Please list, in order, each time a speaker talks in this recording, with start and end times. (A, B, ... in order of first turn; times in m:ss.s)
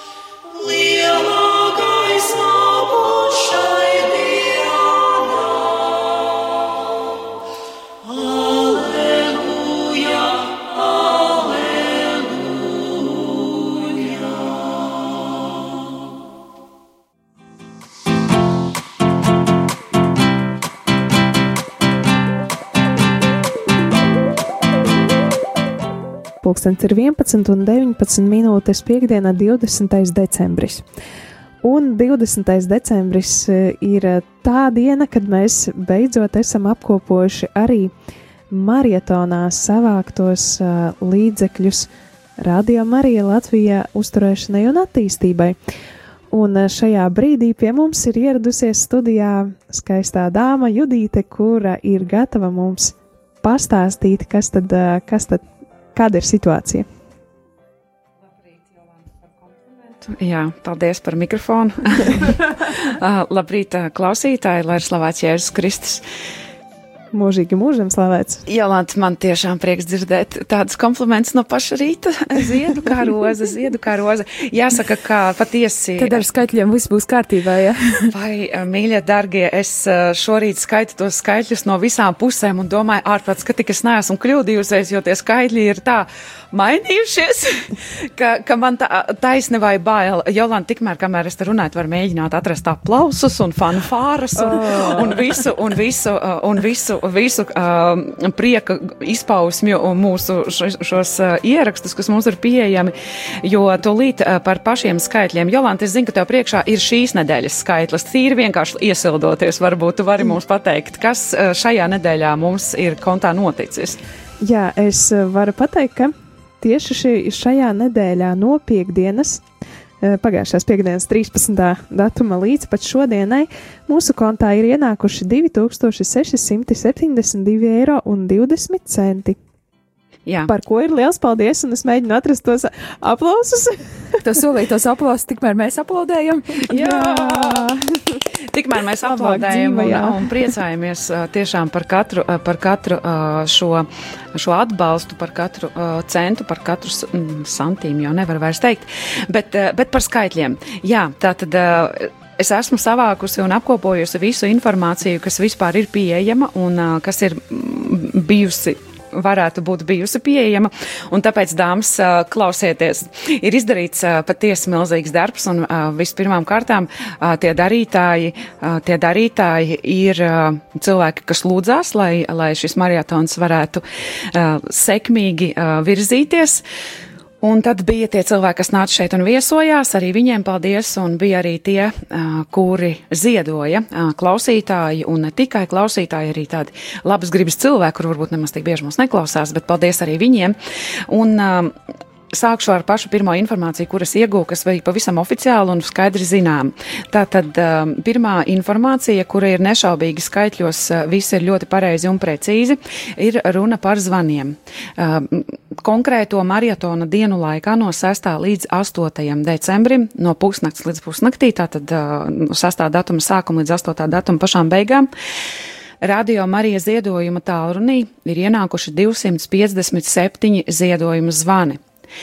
0:00.5-0:05.9 A
0:08.3-0:12.4 A
0:26.4-0:30.8 B
0:31.6-0:37.9 B
0:38.5-0:45.6 B
0:46.3-0:55.4 B
0:56.0-0:56.9 B
1:00.0-1:06.0 A
1:07.1-1:08.4 B
1:08.5-1:16.2 A
1:16.0-1:18.1 C
1:18.1-1:54.0 A
1:54.4-1:59.4 B
2:00.0-2:09.4 B
2:10.3-2:10.5 A
2:10.5-2:14.2 B
2:14.2-2:16.9 C
2:16.7-2:18.2 B
2:16.7-2:17.7 A
2:18.5-2:56.6 A
2:19.0-2:20.5 B
2:57.4-3:10.6 A
3:11.1-3:11.8 A
3:12.3-3:35.1 A
3:36.0-3:41.8 A